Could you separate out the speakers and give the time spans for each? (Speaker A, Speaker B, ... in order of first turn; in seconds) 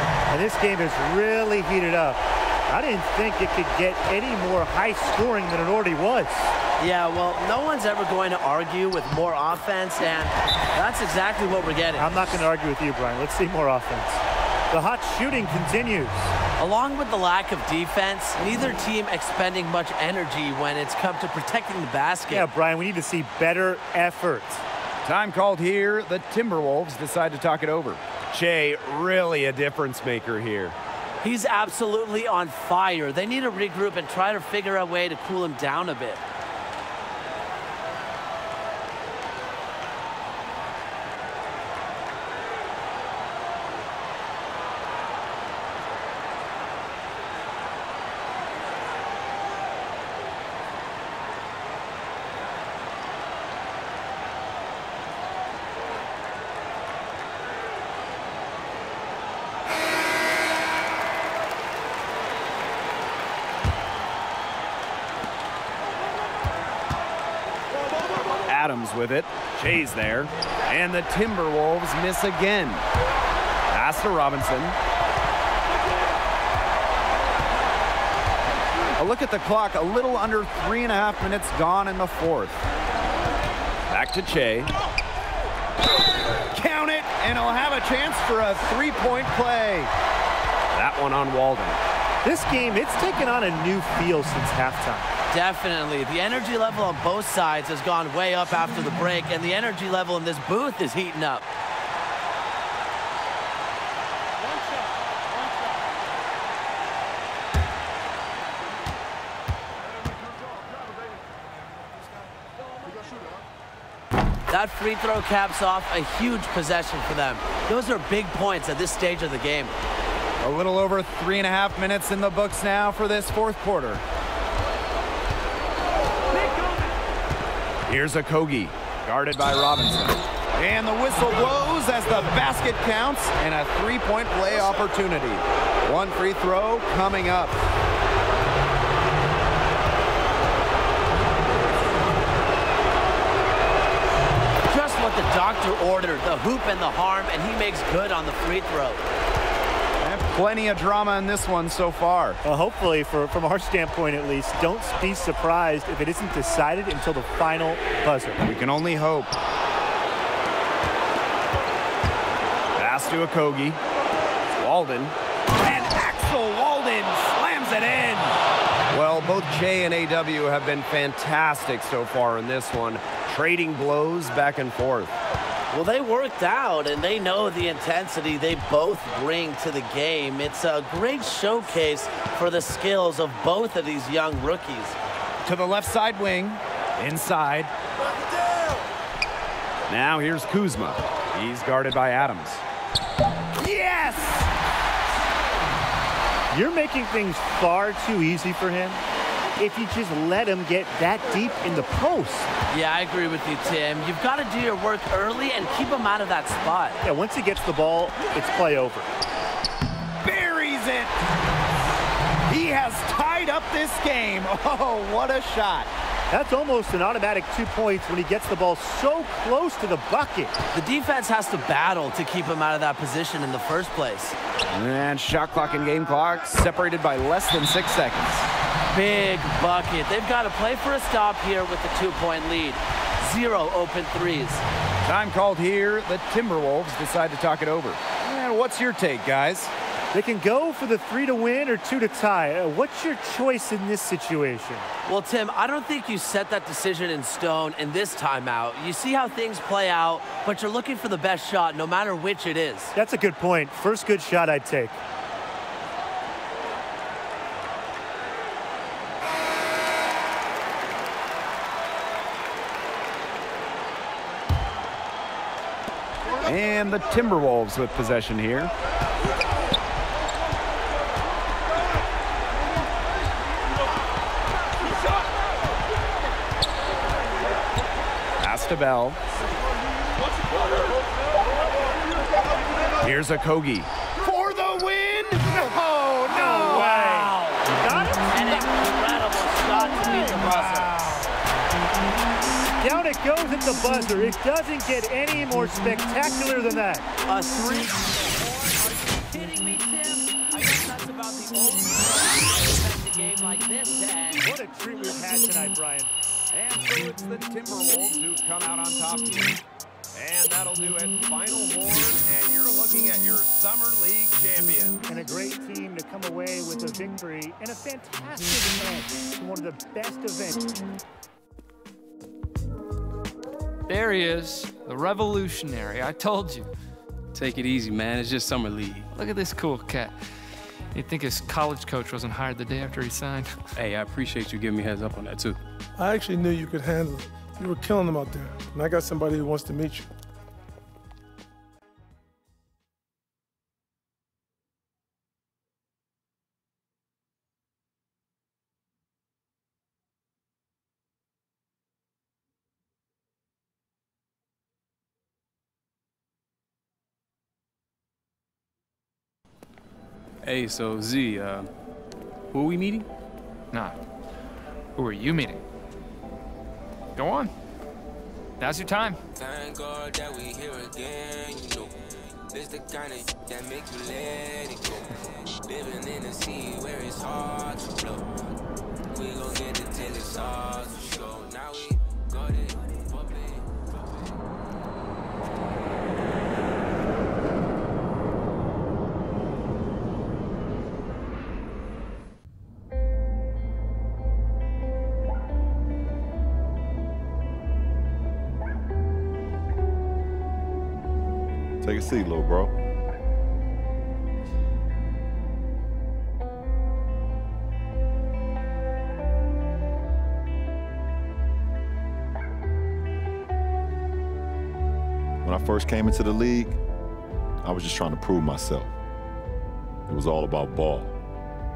Speaker A: 0.3-6.5, 12.0-16.3, 22.3-24.6, 92.2-95.1, 152.4-158.4, 196.5-199.0, 199.6-202.5, 207.0-209.1, 216.3-220.5, 240.1-244.9, 252.9-255.0, 286.2-288.4, 290.1-290.6, 292.8-297.1, 304.4-306.1, 315.1-320.8
Speaker B: 6.8-12.1, 16.6-22.5, 31.2-36.2, 95.3-101.4, 114.5-119.7, 144.7-149.1, 175.7-184.9, 202.7-207.0, 220.7-224.3, 228.9-234.6, 245.1-252.9, 286.4-287.6, 288.3-291.1, 297.3-304.4
Speaker C: 25.0-30.7, 68.5-72.8, 73.7-74.8, 79.0-82.6, 83.9-84.7, 86.5-89.9, 90.7-91.8, 120.4-124.0, 127.9-137.6, 150.0-152.4, 158.4-159.3, 162.8-163.8, 164.6-168.4, 168.9-175.1, 185.4-187.7, 189.9-192.6, 193.6-194.5, 210.2-211.1, 212.5-215.9, 224.7-228.5, 235.0-239.7, 266.4-268.7, 278.4-279.2, 283.0-287.4, 306.5-309.6, 310.1-315.0
Speaker D: 323.9-326.7, 329.1-330.2, 330.9-333.7, 363.7-364.0, 364.9-365.6, 367.1-367.5, 368.6-369.2
Speaker E: 327.3-329.1, 333.8-335.6, 360.4-361.7, 362.5-363.1
Speaker F: 336.0-340.1
Speaker G: 369.3-378.5, 379.1-384.3
Speaker H: 401.8-402.7, 415.4-416.8, 417.6-418.9, 420.1-421.1